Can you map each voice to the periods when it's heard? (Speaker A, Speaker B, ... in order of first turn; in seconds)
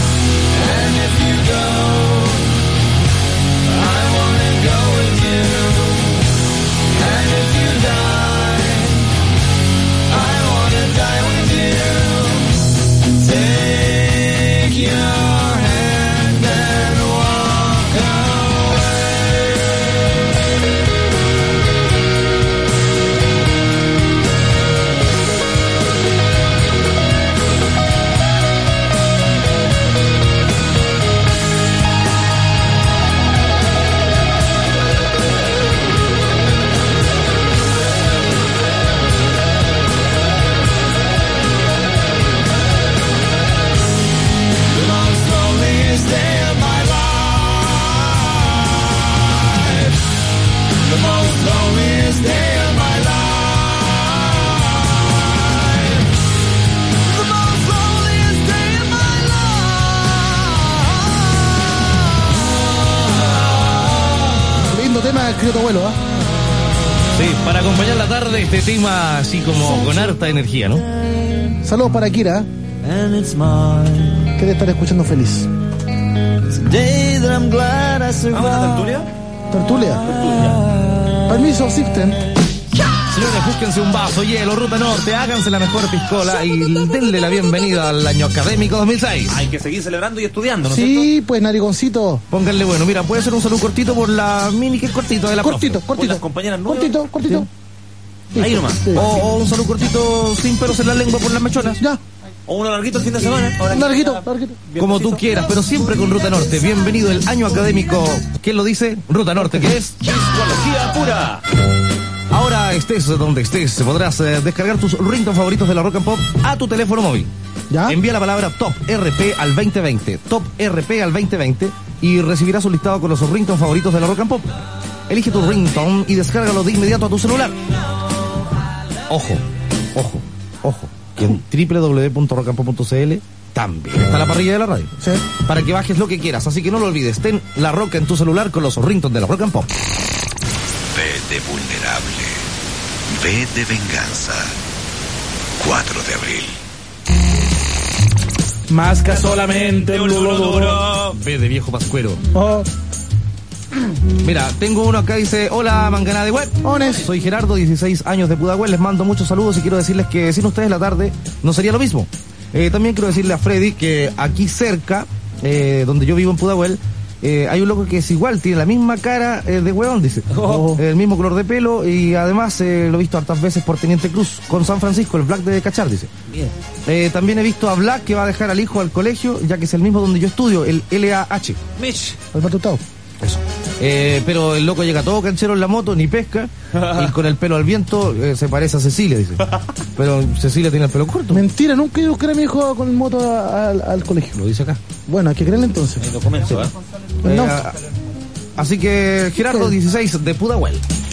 Speaker A: 0.5-2.5, 3.7-6.2, 6.9-9.1, 10.1-12.6, 13.2-19.9, 44.7-49.9, 50.8-56.0, 57.1-60.3, 62.5-63.8, 69.7-70.0, 70.8-71.6, 72.8-74.3, 76.5-78.9
Speaker B: 64.7-66.0, 71.6-72.5, 74.4-75.5, 79.5-80.1, 81.3-82.2, 90.6-92.2, 95.4-97.5, 98.3-99.1, 103.7-104.6, 117.7-118.0, 135.0-135.3, 148.7-150.7, 152.3-152.7, 156.6-157.1, 170.5-170.8, 182.3-182.8, 191.3-194.4, 195.1-196.1, 197.2-197.6, 199.4-199.8
Speaker C: 67.1-70.8, 83.1-89.4, 92.3-95.8, 98.9-101.8, 104.8-110.0, 112.3-117.3, 117.8-124.5, 125.1-127.6, 129.1-129.4, 129.9-139.7, 151.1-152.2, 154.2-176.1, 176.8-181.6, 183.2-189.4, 189.9-191.4, 194.3-194.8, 197.2-197.7, 198.6-200.8
Speaker D: 78.3-79.1, 80.0-80.6, 89.3-91.1, 95.9-97.0, 98.3-98.9, 102.5-105.3, 110.0-111.4, 149.1-151.2, 170.3-170.7, 176.3-176.5, 181.8-182.2, 186.7-187.1, 196.0-196.7
Speaker E: 140.9-142.4, 143.1-144.5, 145.6-146.6